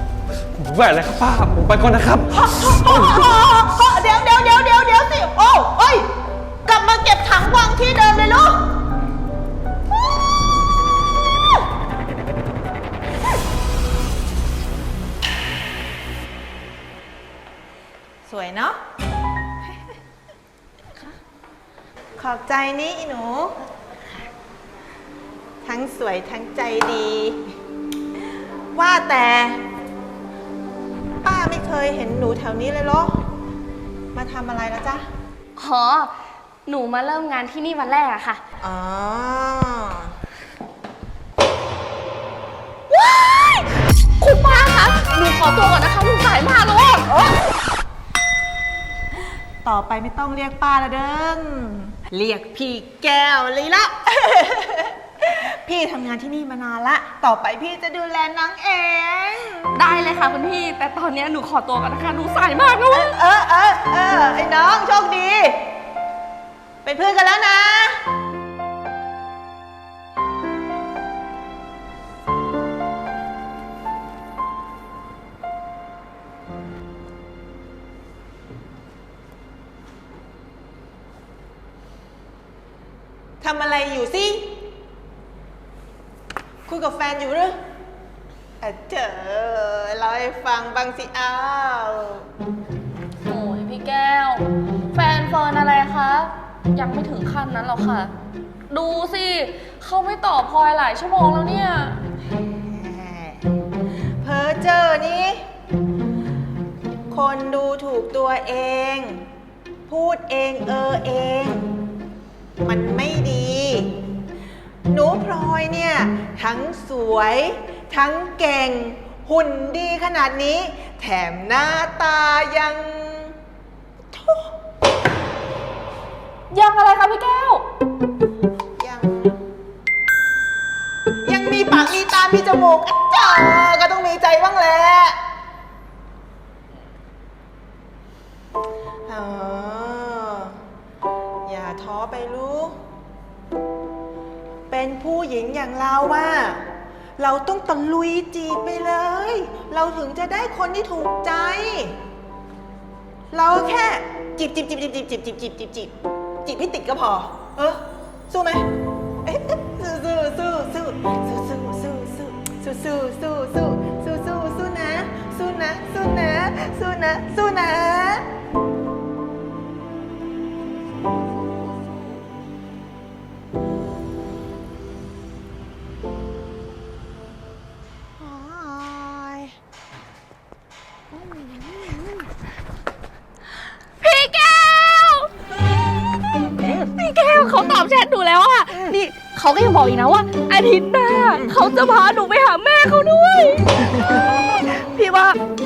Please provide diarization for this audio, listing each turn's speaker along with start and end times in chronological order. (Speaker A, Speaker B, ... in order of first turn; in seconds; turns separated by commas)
Speaker A: 0.6-3.3, Speaker B: 2.3-6.1, Speaker B: 6.7-8.6, Speaker B: 18.2-18.8, Speaker B: 22.2-23.6, Speaker B: 25.6-27.4, Speaker B: 28.7-29.6, Speaker B: 31.2-33.2, Speaker B: 34.1-35.1, Speaker C: 35.6-36.1, Speaker C: 36.6-38.4, Speaker B: 38.6-40.1, Speaker C: 42.9-43.7, Speaker C: 44.2-47.1, Speaker B: 47.1-47.4, Speaker B: 49.6-59.7, Speaker C: 59.7-63.1, Speaker B: 62.9-65.6, Speaker B: 66.8-68.0, Speaker B: 83.4-84.7, Speaker B: 86.7-87.6, Speaker B: 88.6-92.2, Speaker C: 93.2-98.1, Speaker C: 98.7-102.0, Speaker B: 102.6-103.4, Speaker B: 104.2-105.4, Speaker B: 107.1-109.2, Speaker B: 109.9-111.6, Speaker B: 112.6-113.9, Speaker B: 114.9-123.4, Speaker B: 124.1-124.5, Speaker C: 126.5-127.6, Speaker B: 128.8-129.3, Speaker B: 131.2-135.2, Speaker B: 139.1-140.6, Speaker B: 141.4-142.8, Speaker B: 144.7-146.6, Speaker B: 147.2-151.9, Speaker B: 153.3-155.9, Speaker B: 156.4-158.7, Speaker B: 159.2-168.2, Speaker B: 178.2-179.5, Speaker B: 181.5-182.0, Speaker C: 184.0-185.3, Speaker C: 186.7-193.6, Speaker B: 193.8-194.2, Speaker C: 194.7-195.4